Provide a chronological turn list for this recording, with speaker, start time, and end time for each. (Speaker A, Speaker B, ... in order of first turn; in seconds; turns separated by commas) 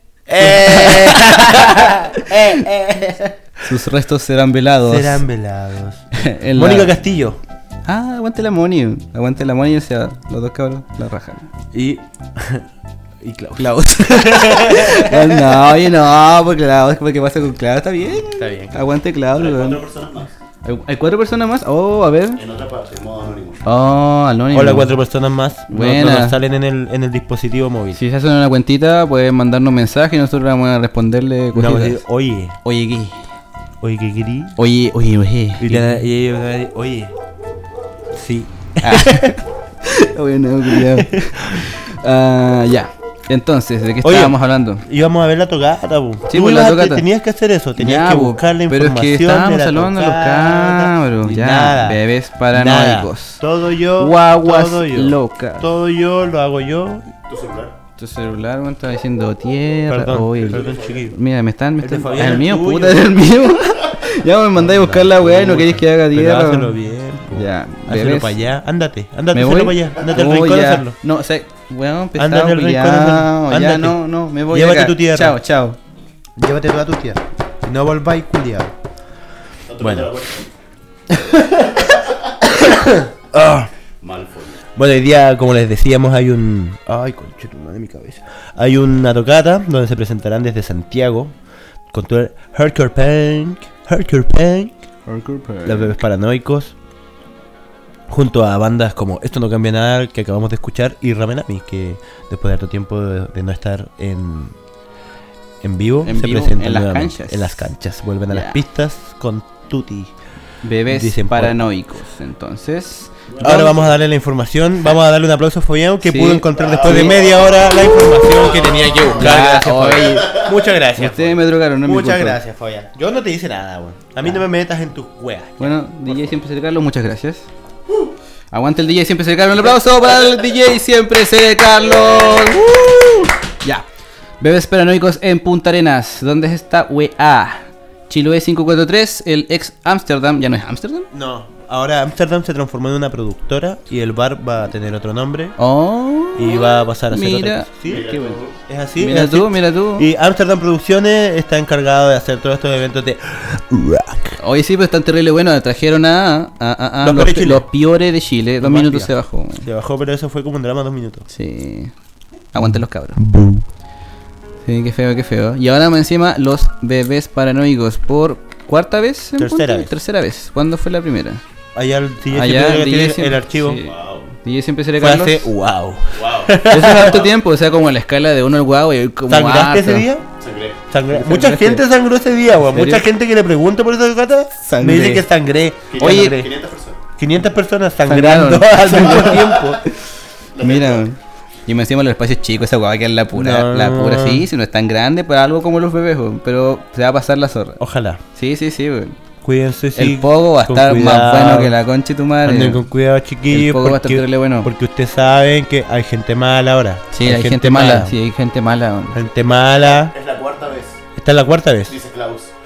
Speaker A: 0.3-3.6, Speaker B: 0.4-2.5, Speaker B: 3.6-5.2, Speaker A: 4.8-7.4, Speaker B: 6.2-6.9, Speaker B: 7.8-11.5, Speaker A: 11.7-12.7, Speaker A: 13.2-15.7, Speaker B: 13.6-19.8, Speaker A: 18.2-18.8, Speaker C: 19.3-20.3, Speaker B: 20.6-22.4, Speaker C: 22.4-23.6, Speaker B: 23.6-24.9, Speaker A: 24.5-28.0, Speaker B: 25.7-26.4, Speaker B: 27.9-32.0, Speaker A: 31.5-32.6, Speaker B: 32.6-33.2, Speaker A: 33.8-34.6, Speaker B: 34.6-36.0, Speaker A: 35.6-37.1, Speaker A: 38.1-39.4, Speaker B: 38.8-44.8, Speaker A: 40.7-41.7, Speaker A: 44.0-57.1, Speaker B: 46.3-47.0, Speaker B: 47.8-53.4, Speaker B: 54.0-55.7, Speaker C: 57.3-57.7, Speaker B: 58.0-66.7, Speaker A: 59.9-61.2, Speaker C: 60.4-61.1, Speaker A: 61.8-63.1, Speaker A: 64.5-71.0, Speaker B: 67.3-68.4, Speaker B: 69.3-75.8, Speaker A: 72.2-75.4, Speaker A: 76.4-78.7, Speaker C: 79.7-80.5, Speaker A: 79.8-80.1, Speaker A: 81.1-83.7, Speaker C: 81.8-82.2, Speaker C: 84.0-84.6, Speaker A: 84.8-91.3, Speaker A: 91.9-94.8, Speaker B: 95.1-96.0, Speaker A: 95.6-96.7, Speaker A: 98.1-104.5, Speaker A: 105.6-110.1, Speaker B: 106.0-107.7, Speaker B: 108.3-108.6, Speaker B: 110.6-113.8, Speaker A: 110.9-111.6, Speaker C: 113.3-113.9, Speaker A: 113.4-125.8, Speaker B: 116.0-117.2, Speaker C: 116.5-117.3, Speaker C: 118.4-119.1, Speaker B: 119.1-122.4, Speaker B: 125.6-127.5, Speaker B: 128.5-133.8, Speaker B: 134.4-141.1, Speaker A: 141.1-145.6, Speaker B: 145.6-148.2, Speaker A: 146.3-154.4, Speaker C: 147.8-148.6, Speaker B: 149.0-150.1, Speaker B: 154.4-159.7, Speaker A: 157.0-157.6, Speaker A: 158.6-161.3, Speaker B: 161.3-161.9, Speaker B: 162.5-163.2, Speaker A: 162.6-163.6, Speaker B: 164.6-171.4, Speaker A: 169.4-169.9, Speaker A: 171.7-173.8, Speaker B: 172.3-175.5, Speaker C: 173.8-174.3, Speaker A: 175.0-177.3, Speaker C: 176.1-176.6, Speaker B: 176.7-180.1, Speaker A: 179.3-180.2, Speaker C: 180.4-180.8, Speaker A: 180.9-186.5, Speaker B: 181.1-181.8, Speaker B: 182.7-183.0, Speaker B: 184.6-185.3, Speaker C: 185.9-187.0, Speaker B: 186.0-186.4, Speaker A: 187.2-189.8, Speaker B: 188.1-189.9, Speaker C: 189.2-189.7, Speaker C: 190.5-191.0, Speaker B: 190.6-197.8, Speaker A: 193.3-194.5, Speaker A: 197.8-198.2, Speaker B: 198.3-199.2, Speaker A: 199.4-201.8, Speaker B: 199.9-202.8, Speaker A: 202.4-208.1, Speaker B: 203.5-204.7, Speaker B: 207.1-209.2, Speaker A: 209.1-210.1, Speaker C: 209.9-211.0, Speaker A: 211.2-211.9, Speaker C: 211.9-212.5